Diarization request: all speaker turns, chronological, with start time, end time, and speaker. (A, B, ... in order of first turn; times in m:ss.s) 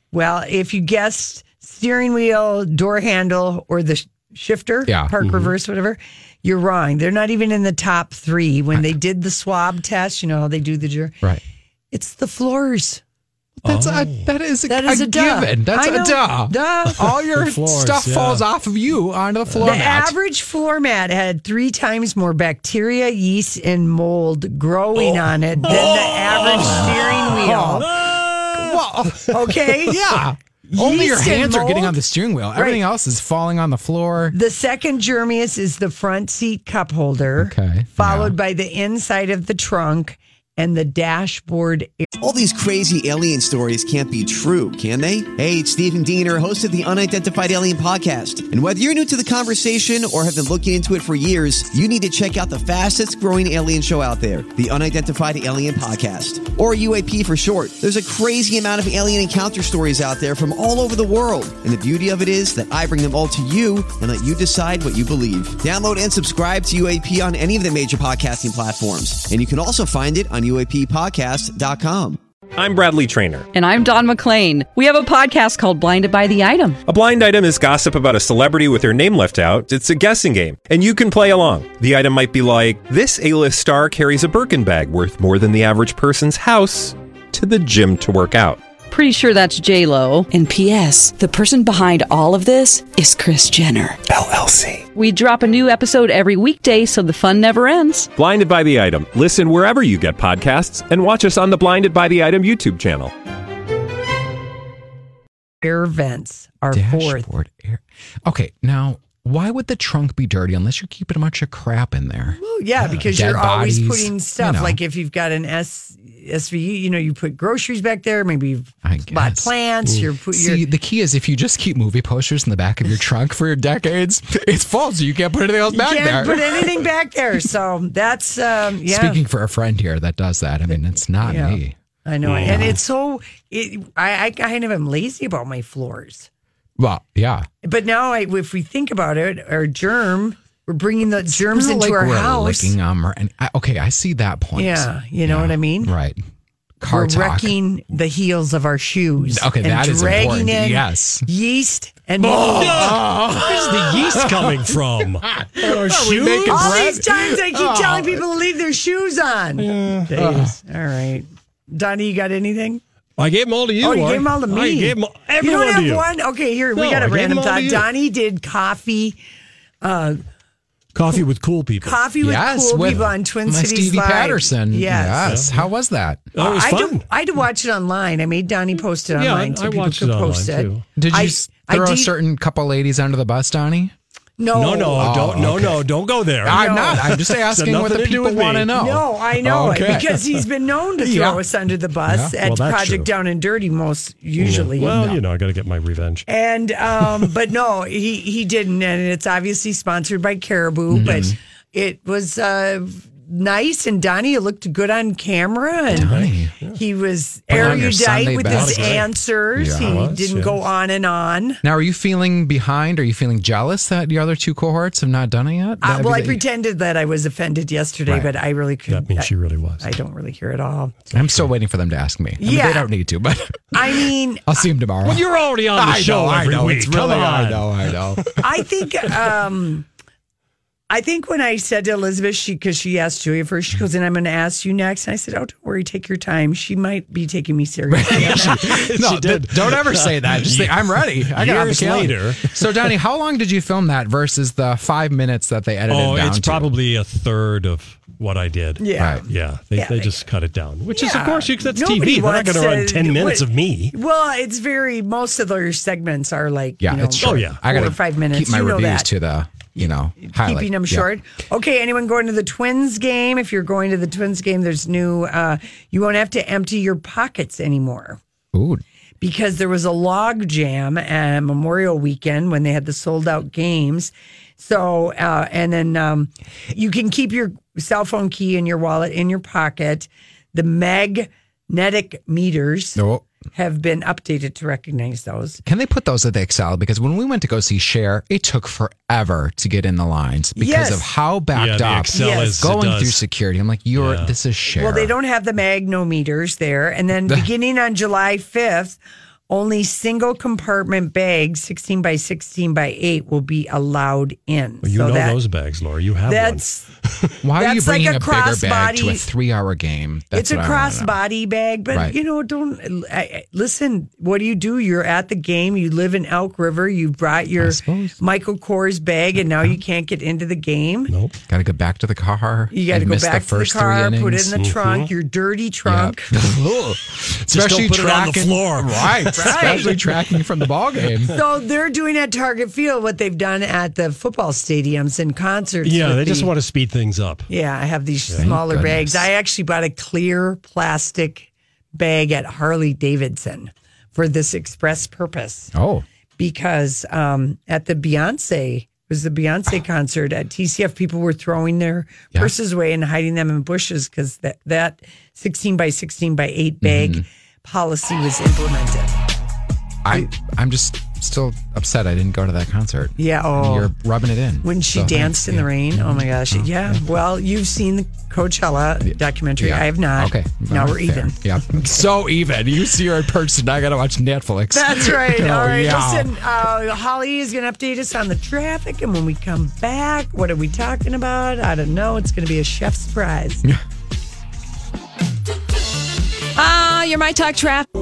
0:00.1-0:11.2 A
0:04.9-0:05.1 B
0:05.2-0:05.5 C
0:11.9-0:13.0 A
0:13.6-0:20.2 B
0:13.6-0:14.3 C
0:14.7-0:17.0 A
0:17.0-0:18.4 C
0:19.5-0:19.8 C
0:19.6-0:27.9 A
0:25.1-0:29.3 C
0:25.6-0:27.5 B
0:28.5-0:34.3 B
0:29.3-0:30.0 A
0:30.7-0:32.0 A
0:32.5-0:32.8 A
0:34.3-0:42.1 A
0:37.4-0:38.4 B
0:42.2-1:12.2 D
1:12.6-1:13.5 E
1:13.5-1:16.8 F
1:16.9-1:28.6 E
1:28.9-1:34.0 F
1:34.9-1:38.1 F
1:38.2-1:43.1 E
1:45.6-1:47.3 A
1:46.7-1:54.8 B
1:52.4-2:00.6 A
1:58.8-1:59.5 B
2:00.3-2:06.7 B
2:05.7-2:09.2 A
2:08.8-2:11.7 B
2:11.2-2:16.3 A
2:12.2-2:12.8 C
2:12.4-2:12.7 B
2:16.8-2:17.5 B
2:17.6-2:22.7 A
2:21.3-2:26.2 B
2:24.6-2:25.9 A
2:26.8-2:27.6 B
2:26.8-2:33.0 A
2:29.3-2:31.3 B
2:32.2-2:38.2 B
2:32.4-2:36.9 C
2:36.5-2:42.8 A
2:39.6-2:40.5 C
2:40.2-2:40.5 B
2:43.2-2:46.1 C
2:43.8-2:49.2 A
2:46.7-2:47.8 C
2:49.8-2:50.2 A
2:50.9-2:52.0 C
2:51.8-2:55.4 A
2:52.2-2:56.3 B
2:55.2-2:55.6 C
2:56.3-2:57.0 C
2:56.4-3:02.1 A
2:59.1-3:00.8 C
3:01.0-3:03.9 B
3:04.4-3:05.1 A
3:04.5-3:08.7 C
3:04.9-3:05.8 B
3:06.4-3:10.1 B
3:06.5-3:07.0 A
3:08.7-3:15.1 A
3:11.0-3:11.4 B
3:12.0-3:12.3 B
3:12.4-3:13.1 C
3:14.4-3:16.2 C
3:14.8-3:15.2 B
3:16.3-3:26.2 A
3:20.9-3:21.4 B
3:25.9-3:26.5 B
3:25.9-3:26.8 C
3:26.7-3:31.6 A
3:27.5-3:30.1 B
3:27.5-3:29.1 C
3:29.8-3:30.6 C
3:31.6-3:36.4 B
3:35.8-3:41.1 A
3:38.1-3:38.3 B
3:38.9-3:39.9 C
3:41.1-3:48.4 B
3:42.4-3:42.9 A
3:43.7-3:44.6 A
3:45.0-3:48.4 C
3:48.4-3:49.8 A
3:50.9-3:58.7 A
3:57.9-4:06.7 B
3:58.2-4:02.9 C
4:05.9-4:13.9 C
4:08.8-4:10.2 A
4:09.0-4:09.2 B
4:10.9-4:19.1 A
4:16.8-4:21.1 B
4:17.2-4:17.6 C
4:19.8-4:28.2 A
4:28.5-4:28.8 B
4:29.2-4:43.0 A
4:43.0-4:43.2 B
4:43.5-4:45.6 A
4:45.6-4:55.1 B
4:50.6-4:51.1 A
4:51.5-4:53.2 C
4:52.1-4:52.6 A
4:54.0-4:54.3 C
4:54.7-4:59.0 A
4:59.5-5:05.4 A
5:04.8-5:07.4 C
5:06.3-5:06.8 A
5:07.4-5:11.2 B
5:07.6-5:09.2 A
5:10.3-5:21.1 A
5:17.6-5:18.2 B
5:21.1-5:21.4 C
5:21.5-5:24.6 B
5:22.7-5:26.3 A
5:24.6-5:25.1 C
5:25.8-5:31.4 B
5:27.5-5:30.4 C
5:29.4-5:29.9 A
5:31.3-5:36.5 A
5:35.8-5:37.5 C
5:37.5-5:45.7 A
5:38.4-5:39.3 B
5:45.7-5:46.0 B
5:46.4-5:59.2 A
5:56.8-5:57.2 B
6:00.0-6:07.0 B
6:03.2-6:03.9 A
6:04.6-6:12.0 A
6:09.0-6:16.3 B
6:14.7-6:23.6 A
6:26.6-6:27.9 A